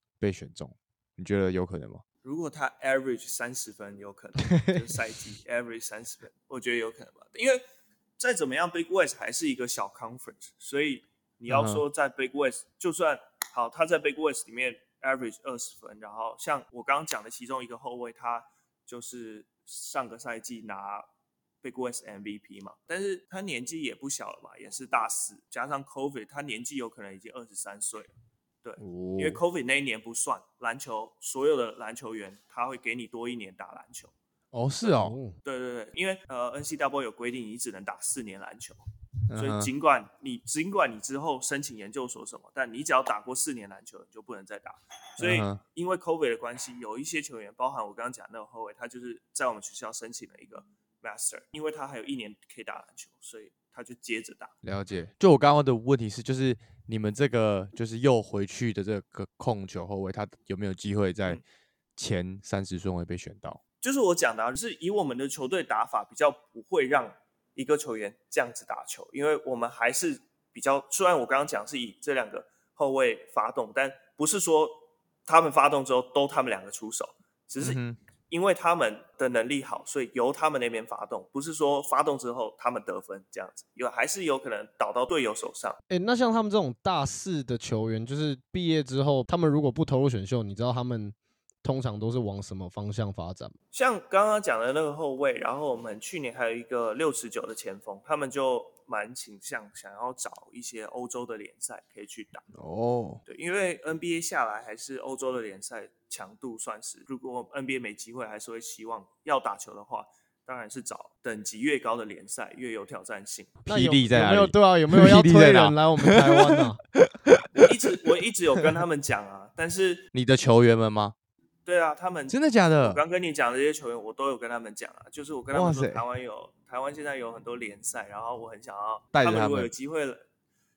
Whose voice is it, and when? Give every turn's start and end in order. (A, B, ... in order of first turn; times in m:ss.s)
0:00.2-0:02.0 A
0:02.2-0:07.6 B
0:08.2-0:21.1 B
0:11.5-0:11.8 A
0:21.6-0:34.1 B
0:28.8-0:29.4 A
0:34.5-0:35.2 A
0:34.9-0:35.4 C
0:35.4-0:38.8 B
0:39.3-0:39.7 A
0:39.4-0:54.5 B
0:45.2-0:45.6 A
0:54.6-1:01.4 A
1:02.0-1:03.6 A
1:03.8-1:25.8 B
1:17.6-1:18.0 A
1:25.9-1:33.6 C
1:33.7-1:42.5 B
1:42.5-1:43.2 A
1:43.2-1:53.6 B
1:53.6-1:56.4 A
1:53.7-1:56.8 C
1:56.9-1:57.9 A
1:57.6-2:00.0 B
2:00.1-2:01.1 A
2:01.6-2:10.2 B
2:02.3-2:03.0 A
2:05.5-2:06.0 A
2:09.1-2:09.7 A